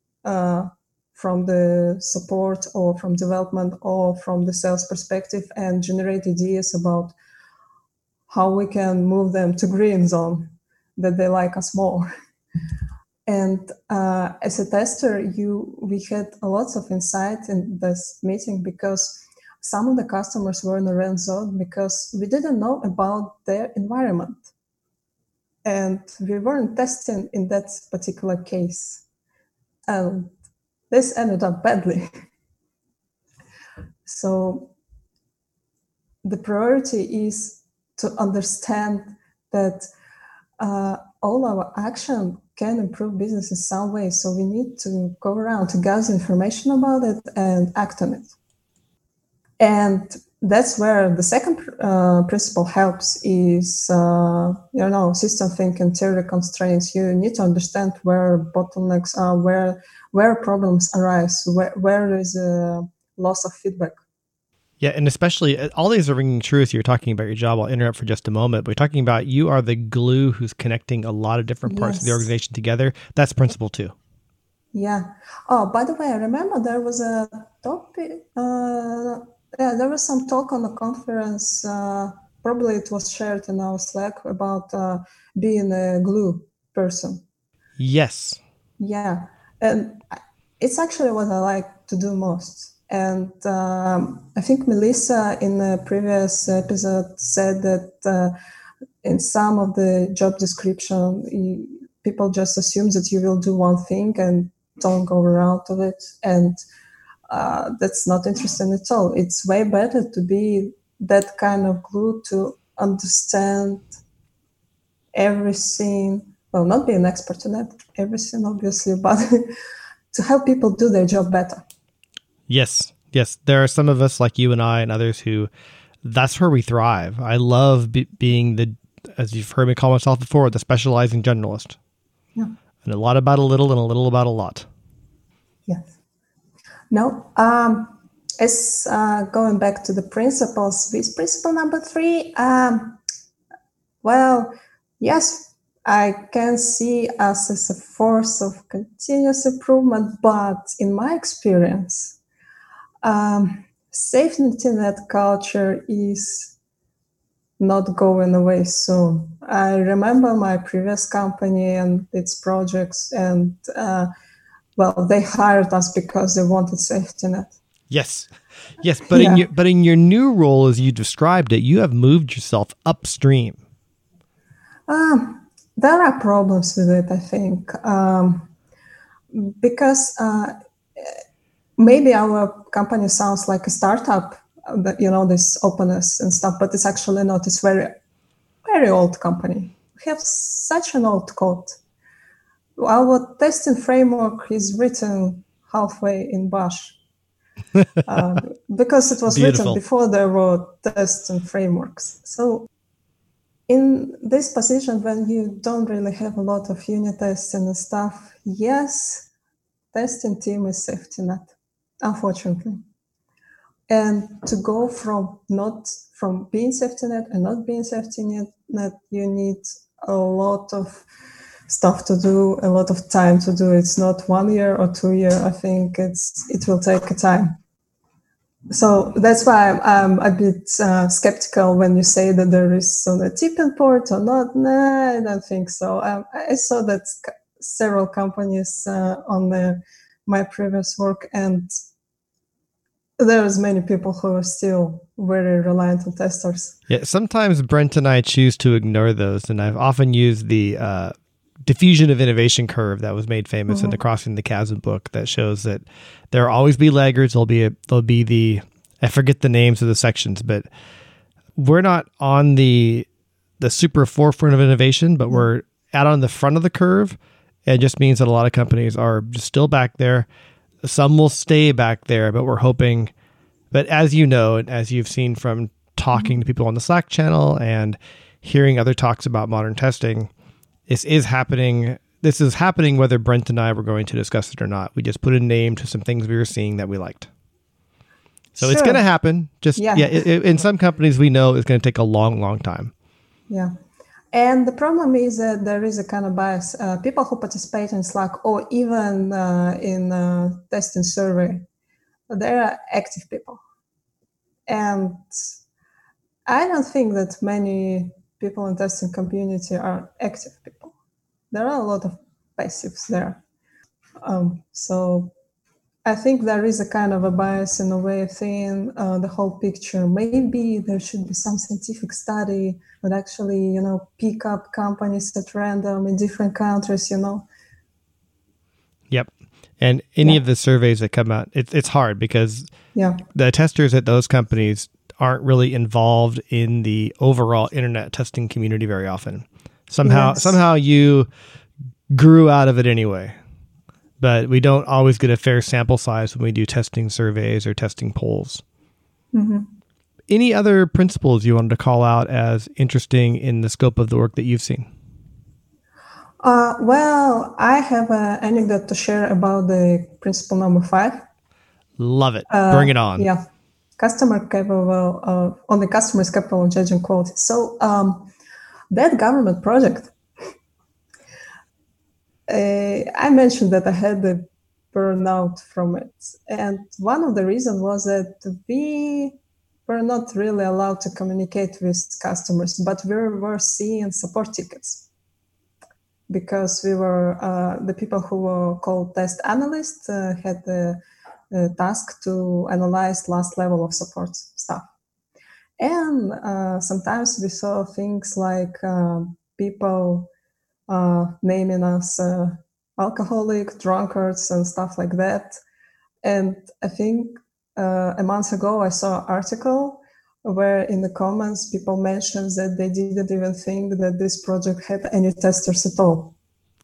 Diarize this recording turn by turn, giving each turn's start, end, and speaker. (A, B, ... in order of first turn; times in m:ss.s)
0:00.2-0:07.2 A
0:08.3-0:12.1 A
0:13.3-0:24.5 A
0:25.6-0:29.0 A
0:29.9-0:30.3 A
0:30.9-0:32.1 A
0:34.1-0:34.7 A
0:36.2-0:39.9 A
0:40.6-0:48.3 A
0:49.6-1:04.0 A
1:04.8-1:13.9 B
1:11.7-1:12.3 A
1:14.7-1:27.2 A
1:27.8-1:28.4 B
1:28.8-1:38.3 A
1:39.0-1:46.6 A
1:47.3-1:53.9 A
1:55.2-1:59.5 A
2:00.1-2:01.6 A
2:02.5-2:05.5 B
2:06.0-2:11.8 B
2:12.8-2:14.7 B
2:16.9-2:23.0 A
2:24.0-2:32.2 A
2:33.0-2:36.6 A
2:37.6-2:44.1 A
2:44.8-2:47.6 A
2:47.9-2:53.6 B
2:49.1-2:49.5 A
2:54.9-2:58.5 A
2:59.3-3:01.2 A
3:01.8-3:08.0 A
3:08.6-3:11.8 A
3:12.8-3:17.0 A
3:18.1-3:22.7 A
3:19.3-3:19.8 B
3:23.7-3:29.3 A
3:29.9-3:32.8 A
3:33.9-3:41.0 A
3:41.7-3:47.5 A
3:48.7-4:01.7 A
4:03.2-4:06.8 A
4:06.9-4:20.7 B
4:13.7-4:14.0 A
4:21.6-4:23.1 B
4:23.6-4:30.3 B
4:30.8-4:33.1 B
4:33.7-4:40.3 B
4:40.9-4:47.3 B
4:48.6-4:49.0 A
4:48.6-4:52.9 B
4:49.8-4:50.2 A
4:54.3-5:01.6 A
5:02.3-5:03.6 A
5:04.7-5:05.3 A
5:06.5-5:10.9 A
5:11.5-5:13.4 A
5:14.2-5:15.3 A
5:16.0-5:27.4 A
5:29.1-5:32.7 B
5:33.0-5:33.2 A
5:33.3-5:41.3 B
5:40.0-5:40.6 A
5:42.1-5:43.4 B
5:44.2-5:48.6 B
5:49.3-5:49.7 A
5:50.3-5:54.9 B
5:56.4-6:01.2 A
6:02.0-6:03.3 B
6:02.5-6:03.5 A
6:04.0-6:08.3 A
6:08.9-6:10.1 A
6:12.5-6:25.1 A
6:26.3-6:31.0 A
6:31.5-6:34.9 A
6:35.8-6:40.3 A
6:40.9-6:45.6 A
6:46.2-6:56.4 A